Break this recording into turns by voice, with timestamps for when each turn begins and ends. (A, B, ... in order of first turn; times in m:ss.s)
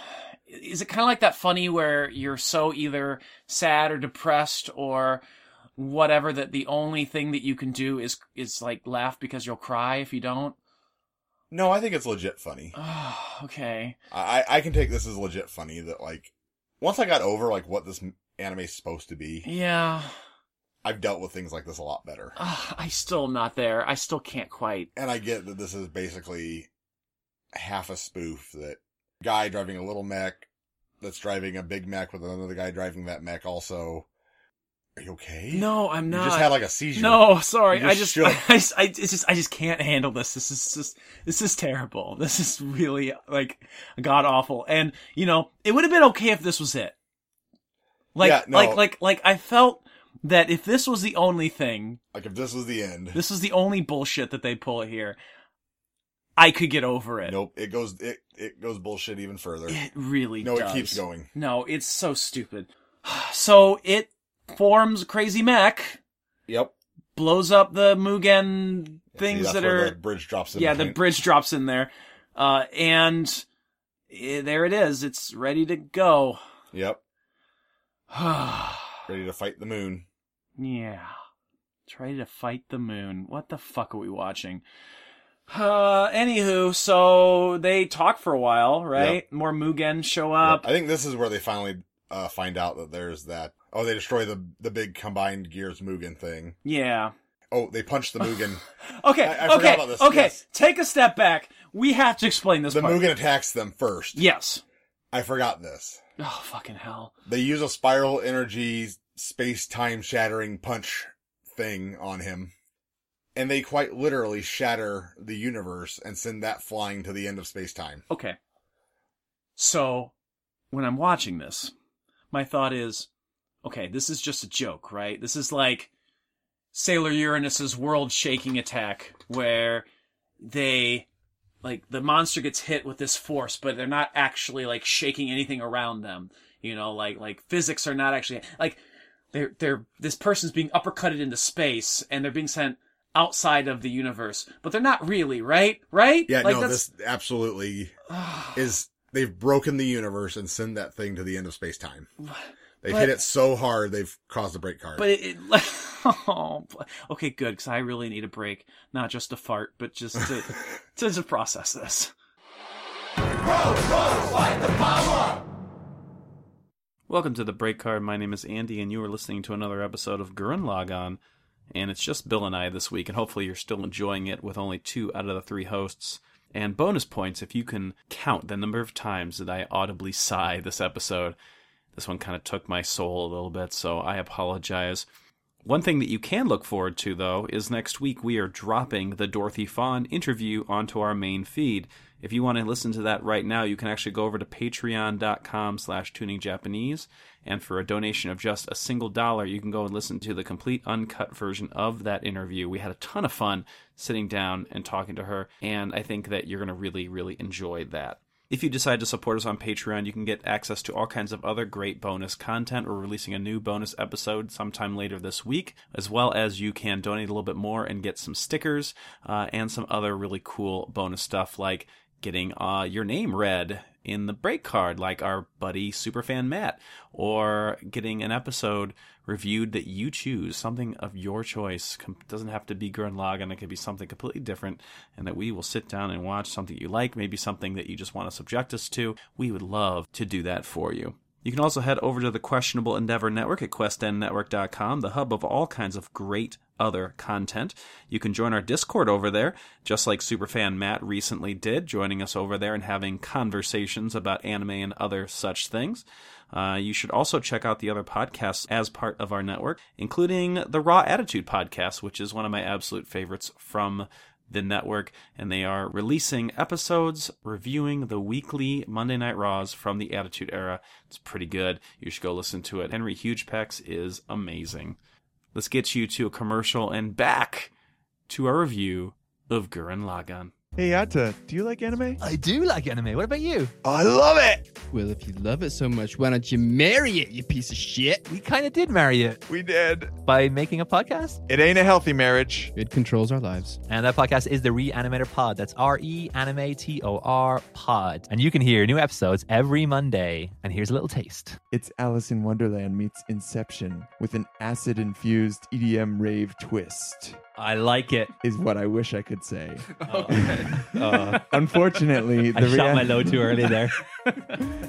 0:00.5-0:05.2 A
0:05.8-0:10.6 A
0:11.5-0:12.8 B
0:12.8-0:14.0 A
0:14.1-0:19.5 B
0:19.4-0:20.1 A
0:20.8-0:22.4 B
0:22.4-0:24.9 A
0:25.0-0:26.7 B
0:27.5-0:30.5 B
0:31.0-0:34.1 B
0:35.0-0:38.4 B
0:35.5-0:46.9 A
0:48.2-0:52.0 A
0:48.2-0:48.9 B
0:52.1-0:53.2 B
0:53.1-0:55.2 A
0:56.4-0:57.4 A
0:57.2-0:59.8 B
0:59.7-1:06.0 A
1:00.4-1:01.3 B
1:06.5-1:06.7 B
1:07.2-1:10.0 A
1:09.1-1:11.0 B
1:10.5-1:13.4 A
1:14.1-1:16.4 A
1:16.7-1:17.0 B
1:18.1-1:19.0 A
1:19.1-1:20.1 B
1:20.6-1:21.1 A
1:21.9-1:24.6 A
1:25.5-1:30.7 A
1:28.9-1:29.2 B
1:30.4-1:36.6 B
1:36.6-1:37.1 A
1:37.5-1:38.6 B
1:38.8-1:43.1 A
1:39.2-1:40.4 B
1:42.7-1:44.2 B
1:44.2-1:44.6 A
1:45.1-1:46.0 B
1:46.2-1:47.1 A
1:47.3-1:52.5 B
1:53.4-1:58.0 B
1:58.1-1:58.4 A
1:59.6-2:00.1 A
2:00.7-2:01.7 A
2:02.3-2:03.1 A
2:03.6-2:05.9 A
2:06.7-2:09.9 A
2:10.4-2:11.1 A
2:11.6-2:18.8 A
2:19.3-2:26.8 A
2:26.3-2:28.0 B
2:28.1-2:28.6 A
2:28.5-2:32.1 B
2:32.8-2:35.1 B
2:32.9-2:33.2 A
2:35.0-2:42.1 A
2:47.1-2:51.2 C
2:51.7-3:01.4 C
3:01.9-3:05.1 C
3:05.6-4:35.0 C
4:35.5-4:37.7 C
4:38.3-4:40.5 C
4:40.8-4:42.2 D
4:42.2-4:43.7 E
4:43.8-4:44.7 D
4:44.9-4:48.2 F
4:48.3-4:49.4 E
4:49.5-4:50.2 D
4:50.2-4:51.4 E
4:51.5-4:52.7 D
4:52.7-4:53.8 F
4:53.9-5:01.6 E
5:01.7-5:07.4 D
5:07.6-5:08.3 E
5:08.4-5:13.8 D
5:10.1-5:14.0 E